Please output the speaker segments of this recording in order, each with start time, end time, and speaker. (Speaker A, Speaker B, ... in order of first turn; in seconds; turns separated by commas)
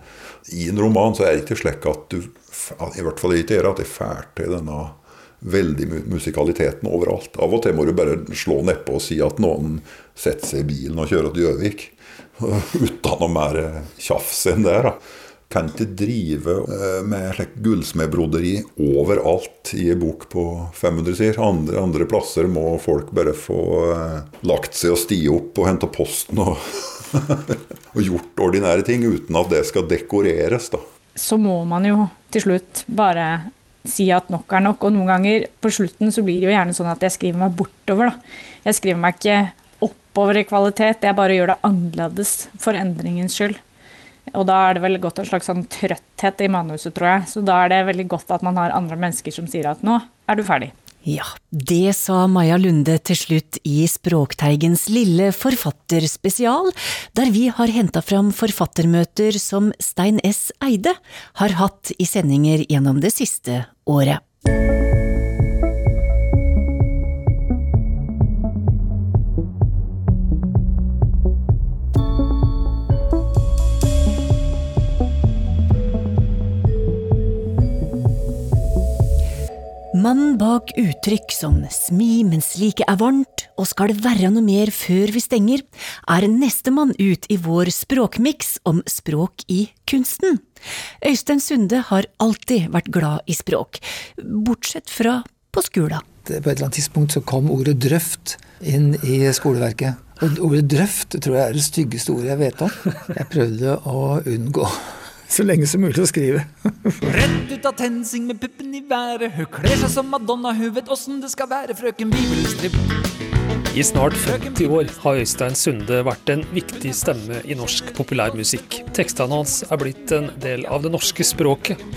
Speaker A: 0.5-30.8, Speaker B: 31.1-43.6, Speaker B: 44.3-50.7, Speaker C: 51.0-64.2, Speaker C: 79.9-90.4, Speaker C: 91.0-96.0, Speaker D: 96.2-107.0, Speaker E: 107.0-112.8, Speaker F: 113.7-121.8, Speaker E: 114.2-114.9